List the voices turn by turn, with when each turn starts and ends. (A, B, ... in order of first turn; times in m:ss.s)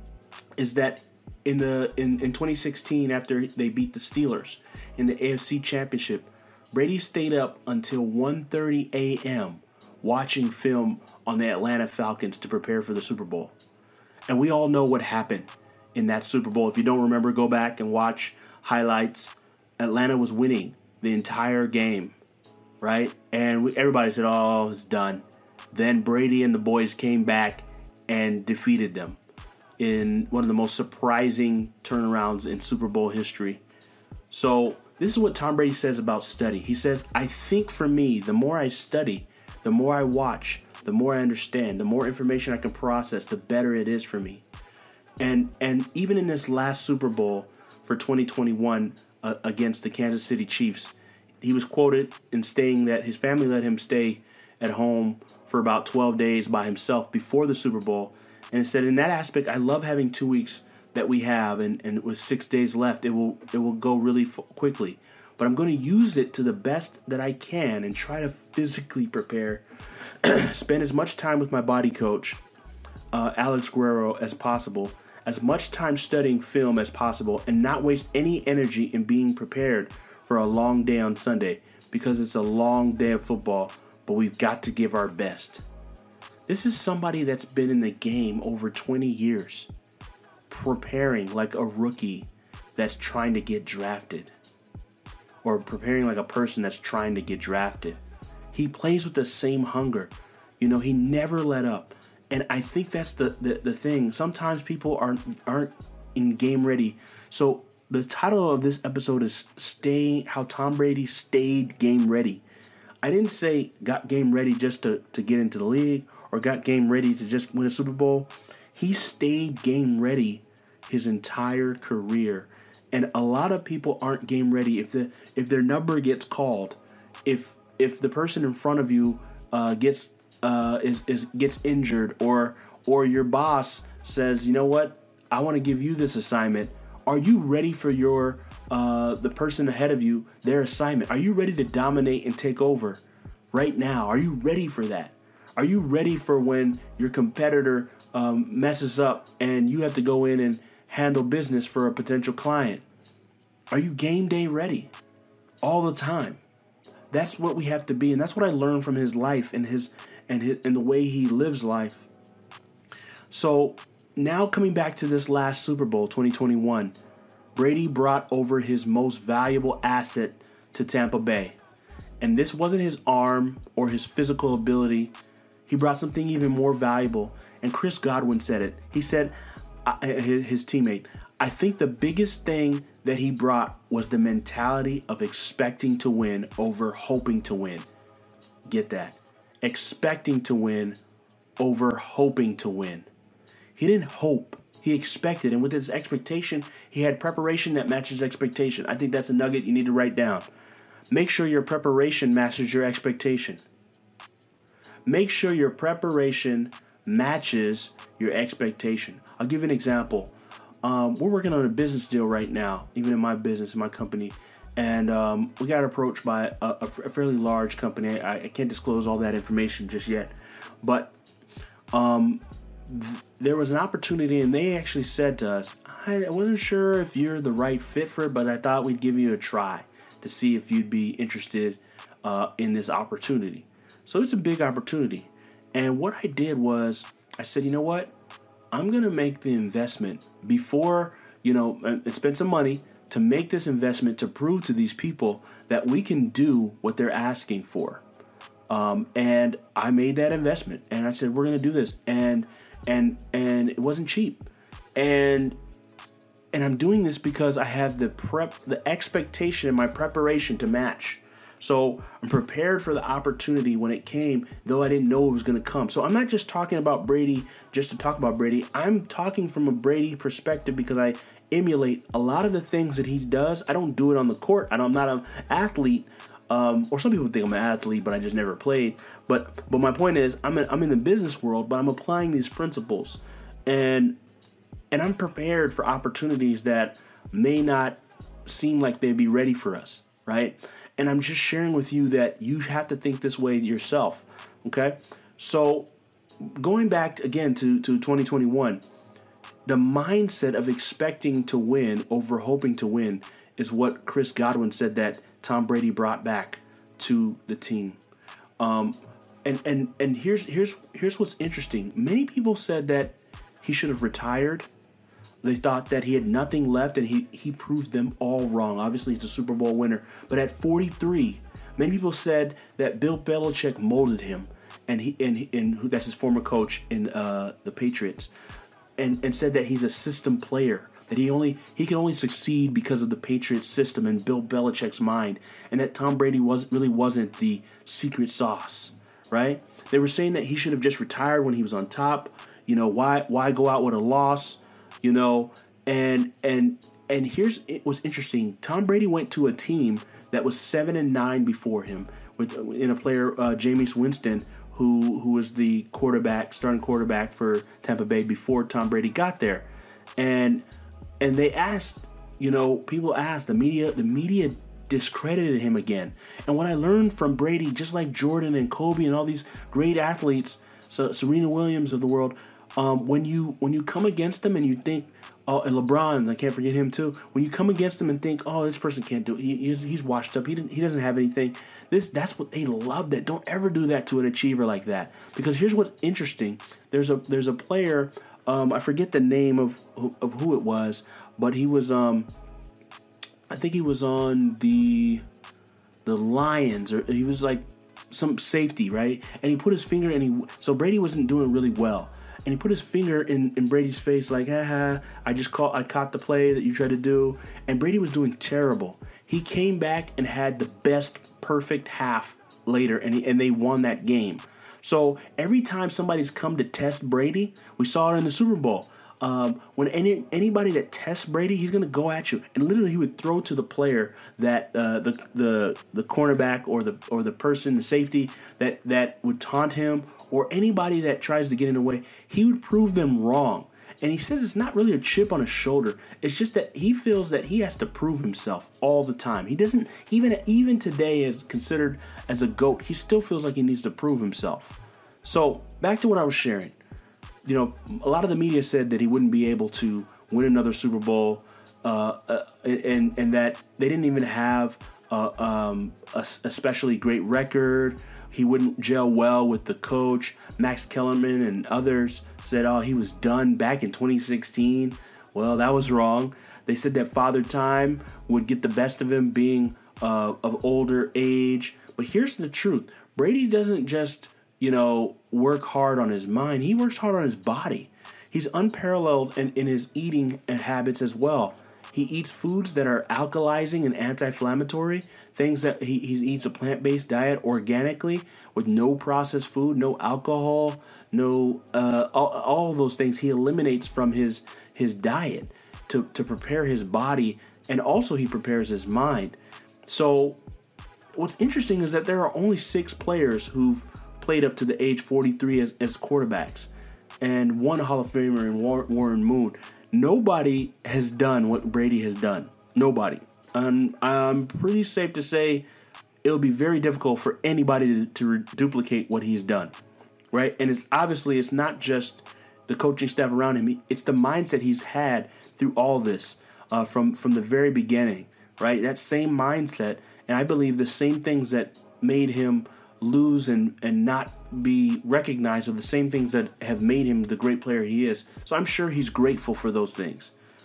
0:00.6-0:13.5 A
0:14.3-0:22.2 A
0:22.8-0:29.2 A
0:29.8-0:33.6 A
0:34.3-0:44.4 A
0:45.2-1:09.6 A
1:10.2-1:12.4 A
1:13.1-1:25.6 A
1:26.5-1:29.7 A
1:30.5-1:34.3 A
1:35.4-1:38.0 A
1:38.5-1:52.4 A
1:53.0-2:23.0 A
2:23.5-2:32.8 A
2:33.7-2:34.9 A
2:35.6-2:36.4 A
2:37.1-2:42.1 A
2:43.3-2:46.9 A
2:47.5-2:51.6 A
2:52.2-2:55.1 A
2:55.7-3:07.8 A
3:08.7-3:11.0 A
3:11.6-3:13.1 A
3:13.8-3:20.4 A
3:21.1-3:23.6 A
3:25.0-3:41.1 A
3:41.9-3:58.1 A
3:58.7-4:08.0 A
4:08.7-4:15.6 A
4:16.5-4:44.2 A
4:44.9-4:55.9 A
4:56.4-4:58.8 A
4:59.6-5:08.0 A
5:08.6-5:14.7 A
5:15.4-5:28.3 A
5:29.0-5:59.6 A
6:00.2-6:00.6 A
6:01.2-6:32.3 A
6:33.5-6:35.2 A
6:36.0-7:26.8 A
7:27.4-8:19.4 A
8:19.9-8:20.4 A
8:21.2-8:26.7 A
8:27.2-8:35.6 A
8:36.2-8:39.7 A
8:40.3-9:00.3 A